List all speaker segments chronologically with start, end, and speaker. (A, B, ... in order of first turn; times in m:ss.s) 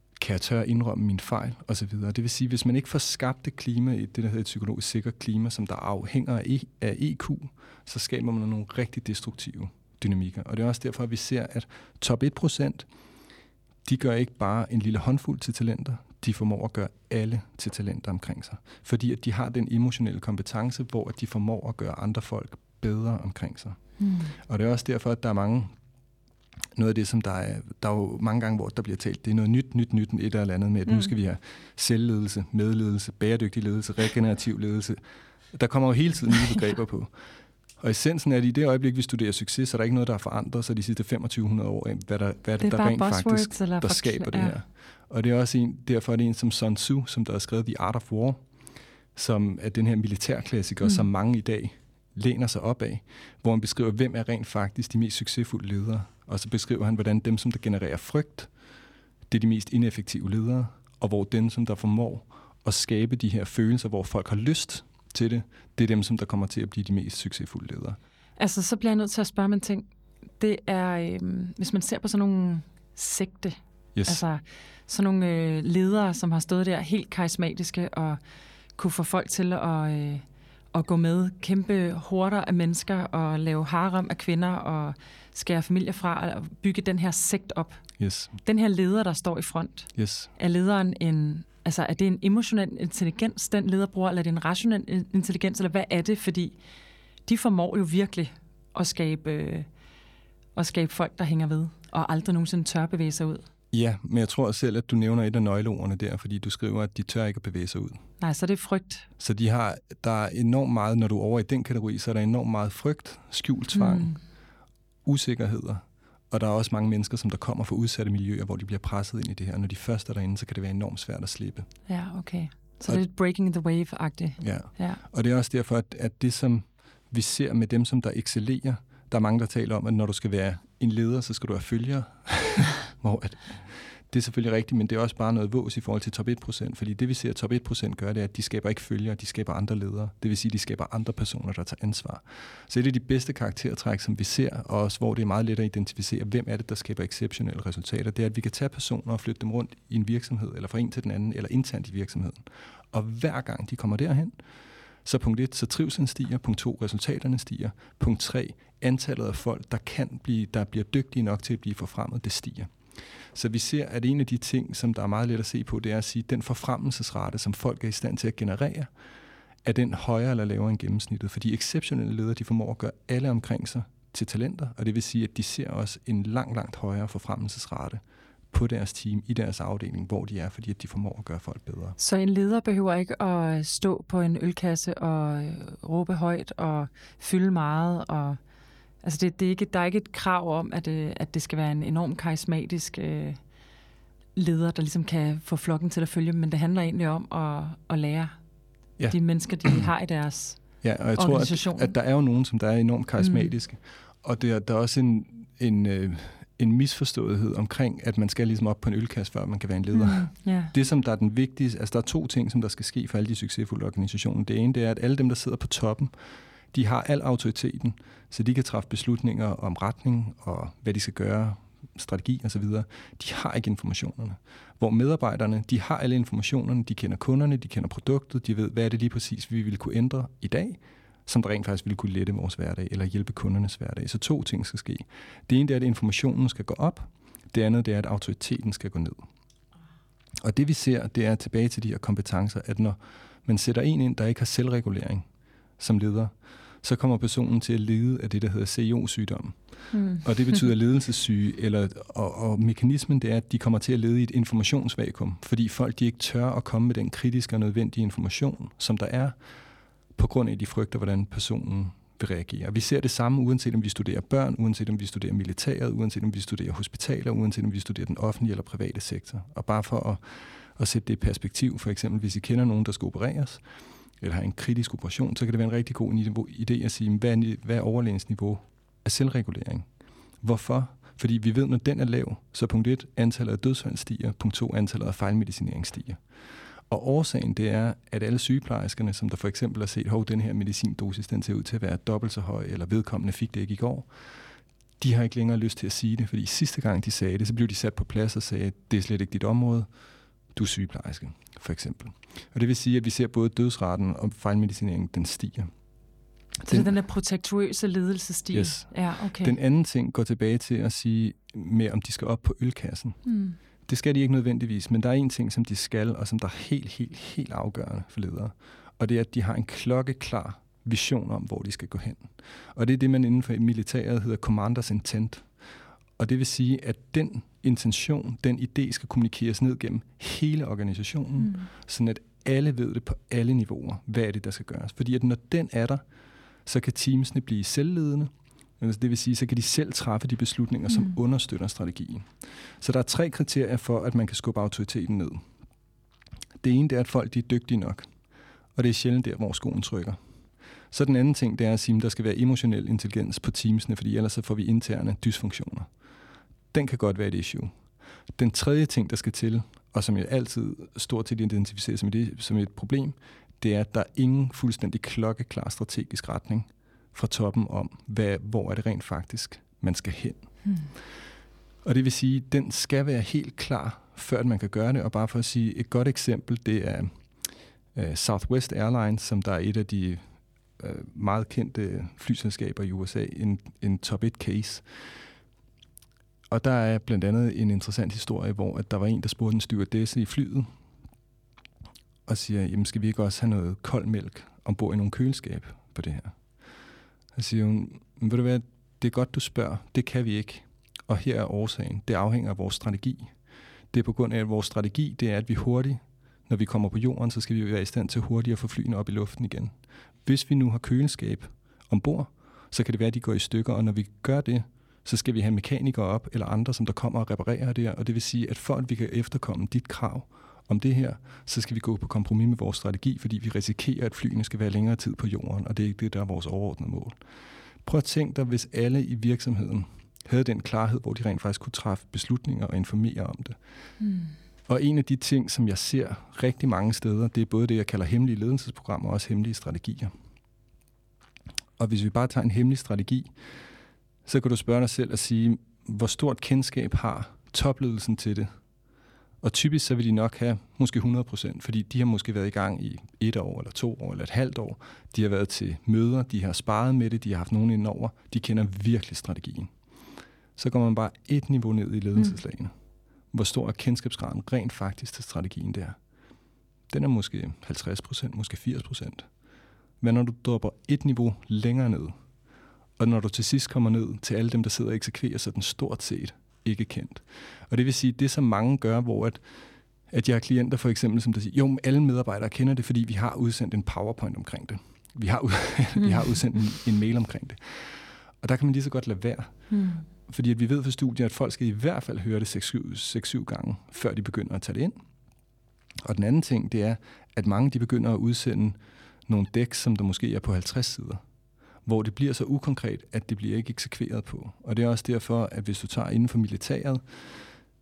0:00.2-0:12.9 A
0:13.8-0:23.8 A
0:24.0-0:24.4 B
0:24.4-0:25.7 A
0:26.8-0:35.0 A
0:30.9-0:31.1 B
0:35.5-0:37.1 A
0:37.8-0:48.4 A
0:42.6-0:44.6 B
0:49.2-0:58.5 A
0:59.3-1:08.0 A
1:08.4-1:09.9 B
1:10.4-1:18.2 B
1:14.0-1:14.2 A
1:18.8-1:27.8 B
1:28.0-1:28.3 A
1:28.4-1:36.6 B
1:30.0-1:30.3 A
1:37.3-1:39.7 B
1:40.6-1:43.4 B
1:43.7-1:48.0 A
1:48.2-1:49.1 B
1:49.2-1:54.2 A
1:53.7-1:54.2 B
1:55.0-2:01.7 A
2:01.9-2:05.0 B
2:04.4-2:34.4 A
2:35.0-2:42.7 A
2:43.3-2:48.9 A
2:49.6-3:02.0 A
3:02.0-3:08.4 B
3:09.0-3:13.4 B
3:14.4-3:18.4 B
3:19.0-3:19.8 A
3:19.1-3:20.6 B
3:20.8-3:36.1 A
3:21.2-3:21.9 B
3:23.2-3:23.5 B
3:29.9-3:30.7 B
3:36.7-3:59.2 A
4:00.4-4:05.3 A
4:05.8-4:09.6 A
4:09.9-4:10.6 B
4:10.2-4:19.4 A
4:20.2-4:33.6 A
4:34.2-4:39.9 A
4:40.4-4:46.2 A
4:46.9-4:54.1 A
4:55.0-4:59.9 A
5:00.5-5:05.7 A
5:06.6-5:09.6 B
5:06.7-5:07.0 A
5:08.5-5:13.2 A
5:13.2-5:13.6 B
5:13.9-5:25.5 A
5:26.2-5:36.0 A
5:31.4-5:31.7 B
5:36.7-5:45.4 A
5:40.9-5:41.2 B
5:46.6-5:48.1 A
5:48.8-5:50.2 A
5:50.9-5:55.9 A
5:56.7-5:57.7 A
5:58.4-6:10.5 A
6:10.6-6:10.9 B
6:11.8-6:17.1 A
6:17.9-6:20.2 A
6:20.8-6:24.8 A
6:26.5-6:30.7 A
6:32.3-6:36.4 A
6:37.4-6:43.3 A
6:43.9-6:49.7 A
6:50.2-7:07.2 A
7:07.8-7:13.6 A
7:14.0-7:14.3 B
7:14.7-7:20.1 A
7:21.8-7:23.3 A
7:24.3-7:28.5 A
7:29.4-7:39.7 A
7:40.6-7:42.7 A
7:43.3-7:46.0 A
7:46.9-7:49.3 A
7:50.0-7:52.1 A
7:53.0-7:59.4 A
8:00.1-8:09.6 A
8:09.7-8:10.1 B
8:10.3-8:15.0 A
8:16.0-8:21.2 A
8:21.9-8:27.5 A